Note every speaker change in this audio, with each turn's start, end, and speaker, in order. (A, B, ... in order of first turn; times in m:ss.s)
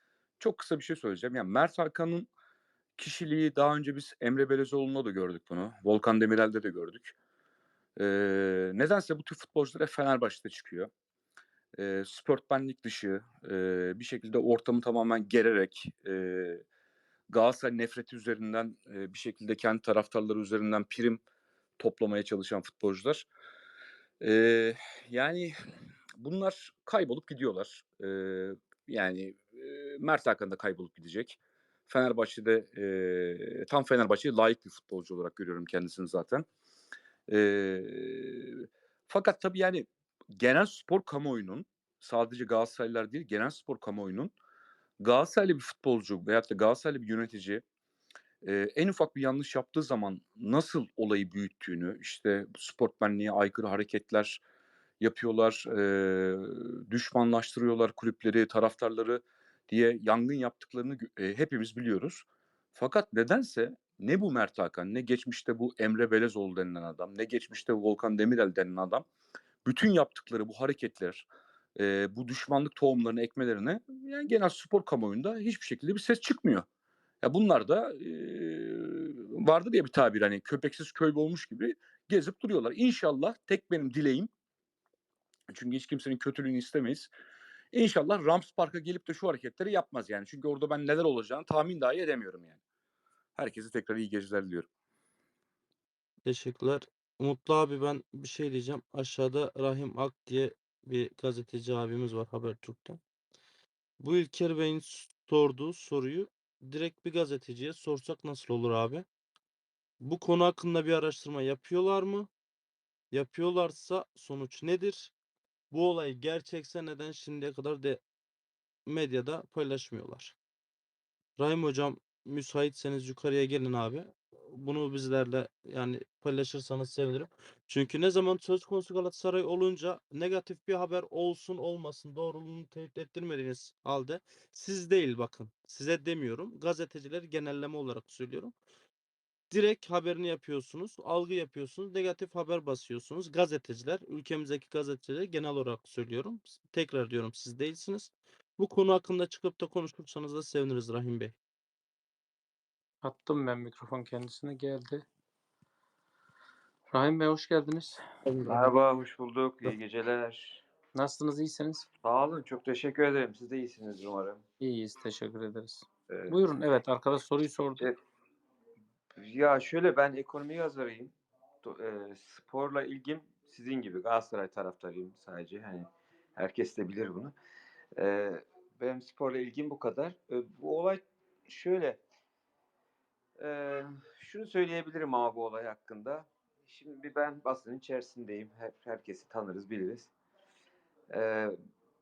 0:00.4-0:02.3 A
0:03.0-0:07.1 A
0:08.0-0:10.9 A
0:11.8-0:16.6 A
0:17.3-0:21.2 A
0:21.8-0:23.3 A
0:24.2-0:25.5 A
0:26.2-0:36.5 A
0:37.3-0:44.3 A
0:45.0-0:47.6 A
0:48.4-0:54.4 A
0:55.0-1:09.1 A
1:09.6-1:16.7 A
1:17.2-1:24.3 A
1:25.5-1:27.1 A
1:27.7-1:32.6 A
1:33.4-1:34.7 A
1:36.2-1:43.0 B
1:44.0-1:49.1 B
1:50.0-1:52.3 B
1:53.1-1:55.1 B
1:55.7-1:58.0 B
1:58.9-2:00.4 B
2:01.4-2:18.6 B
2:19.5-2:31.4 B
2:33.0-2:35.1 C
2:36.9-2:38.0 C
2:38.2-2:38.7 B
2:38.5-2:40.6 D
2:40.9-2:41.9 C
2:42.0-2:44.4 D
2:44.6-2:47.9 C
2:46.1-2:46.4 D
2:49.2-2:57.4 D
2:58.0-3:02.0 D
3:03.4-3:10.1 D
3:11.1-3:11.6 D